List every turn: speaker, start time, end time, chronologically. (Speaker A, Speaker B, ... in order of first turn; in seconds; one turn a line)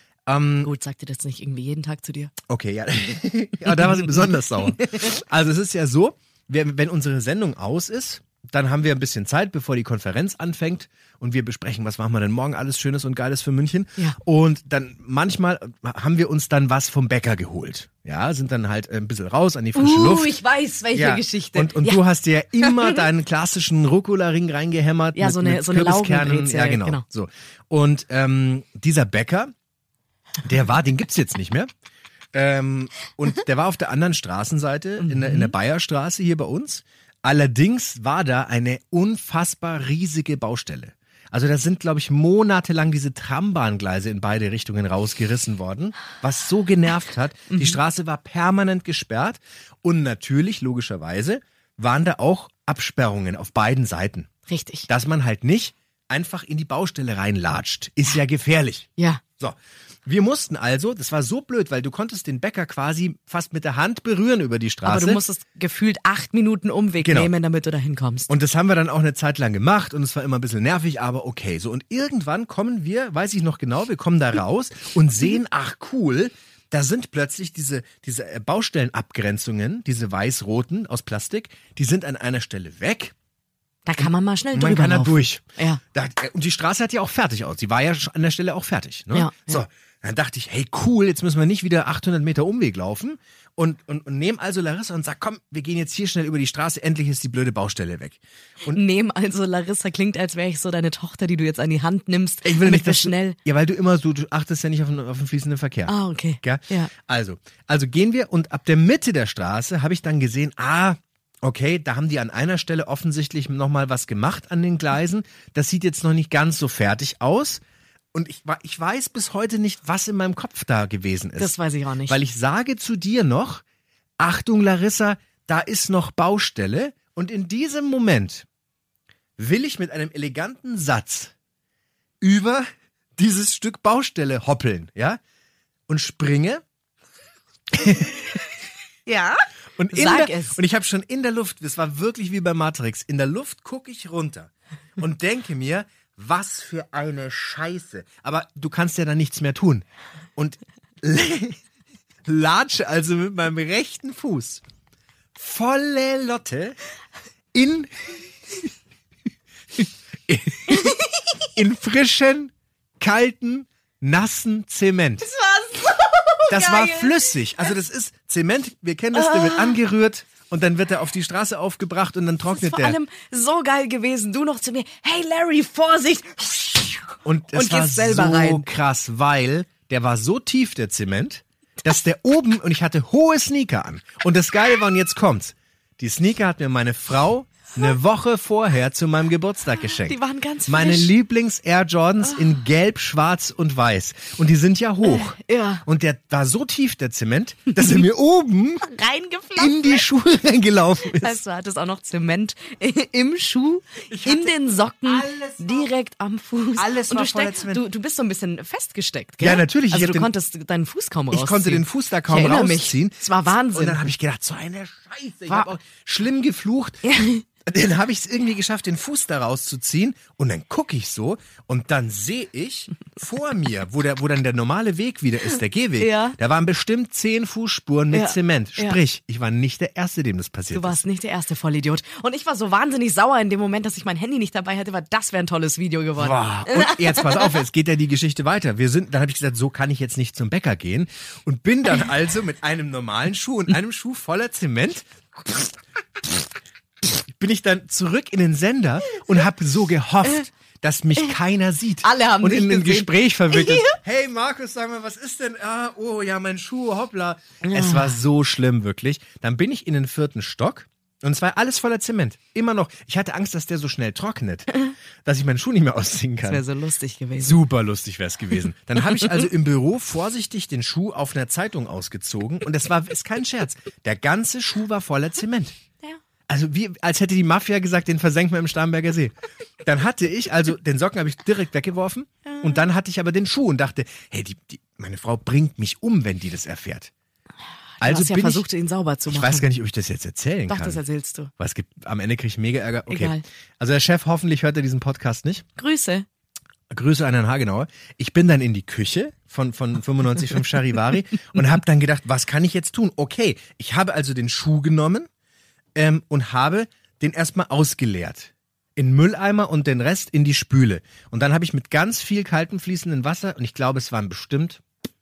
Speaker A: 0.3-0.7
Speaker B: 0.6-2.3
Speaker A: 2.5-20.4
Speaker B: 19.8-22.0
Speaker A: 20.9-29.5
Speaker B: 22.6-23.0
Speaker B: 25.1-27.0
Speaker A: 30.4-31.7
Speaker A: 32.3-54.3
Speaker B: 35.0-35.5
Speaker B: 47.5-47.8
Speaker B: 54.5-54.9
Speaker A: 54.9-65.2
Speaker B: 64.8-68.3
Speaker A: 67.0-67.3
Speaker A: 68.3-83.1
Speaker B: 83.8-85.8
Speaker A: 84.0-85.4
Speaker A: 85.9-98.8
Speaker B: 89.1-89.6
Speaker B: 98.7-103.4
Speaker A: 102.4-117.6
Speaker B: 105.9-106.9
Speaker A: 118.1-123.6
Speaker B: 121.4-122.2
Speaker A: 124.2-128.5
Speaker A: 129.4-131.3
Speaker A: 132.2-135.2
Speaker A: 135.9-136.6
Speaker A: 137.8-138.2
Speaker B: 139.1-140.6
Speaker A: 139.8-149.8
Speaker A: 150.4-151.6
Speaker A: 152.3-154.6
Speaker A: 155.3-156.8
Speaker A: 157.5-158.2
Speaker A: 160.3-161.0
Speaker A: 161.5-165.2
Speaker B: 165.2-167.7
Speaker A: 166.5-173.0
Speaker B: 169.1-169.8
Speaker B: 172.5-178.7
Speaker A: 177.2-198.9
Speaker B: 189.8-191.1
Speaker B: 195.1-195.8
Speaker B: 198.8-200.0
Speaker A: 199.6-201.4
Speaker B: 201.2-214.1
Speaker A: 204.1-205.9
Speaker A: 206.8-207.8
Speaker A: 209.4-210.3
Speaker A: 211.3-217.0
Speaker B: 217.1-217.4
Speaker A: 217.7-231.0
Speaker B: 226.0-226.4
Speaker B: 228.1-229.0
Speaker B: 230.7-237.6
Speaker A: 236.2-245.6
Speaker A: 247.0-266.6
Speaker B: 252.0-254.0
Speaker B: 257.6-258.2
Speaker B: 266.4-267.6
Speaker A: 267.4-275.8
Speaker A: 276.5-287.1
Speaker B: 282.5-282.8
Speaker B: 288.0-289.7
Speaker A: 288.0-288.6
Speaker A: 289.3-291.0
Speaker B: 290.7-291.5
Speaker A: 291.6-295.6
Speaker B: 293.1-293.4
Speaker B: 295.8-296.3
Speaker A: 296.9-305.3
Speaker A: 305.9-314.8